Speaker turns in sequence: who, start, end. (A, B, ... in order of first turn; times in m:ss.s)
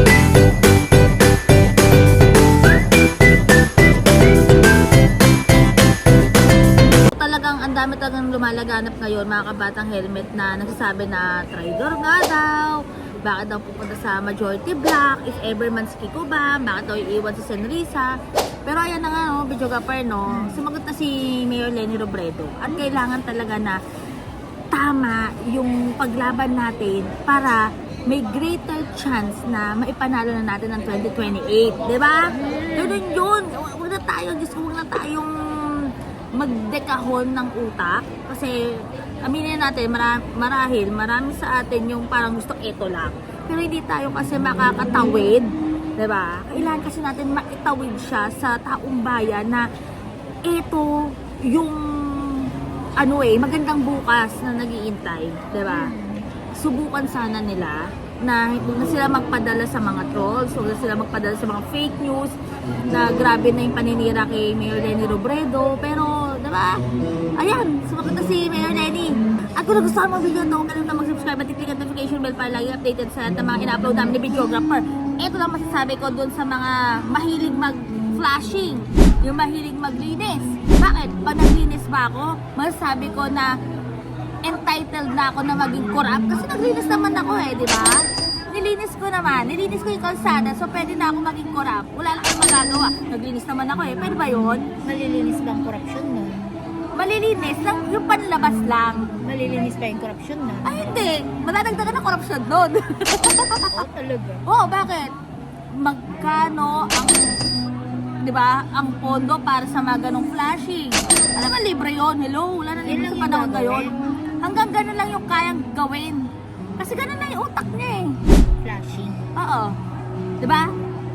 0:07.0-0:23.8 A
0:20.3-0:20.6 B
0:24.7-0:49.7 A
0:32.3-0:33.0 B
0:50.4-0:55.9 A
0:55.7-0:56.3 B
0:56.5-1:06.8 A
1:07.4-1:23.6 A
1:24.4-1:34.7 A
1:34.8-1:36.5 B
1:37.0-1:39.1 A
1:39.2-1:40.9 B
1:40.6-1:43.8 A
1:43.7-1:44.4 B
1:44.5-1:45.1 A
1:45.7-1:47.4 A
1:48.2-1:58.2 A
1:52.8-1:54.0 B
1:58.6-1:59.3 B
1:59.4-1:59.8 A
2:00.4-2:00.7 A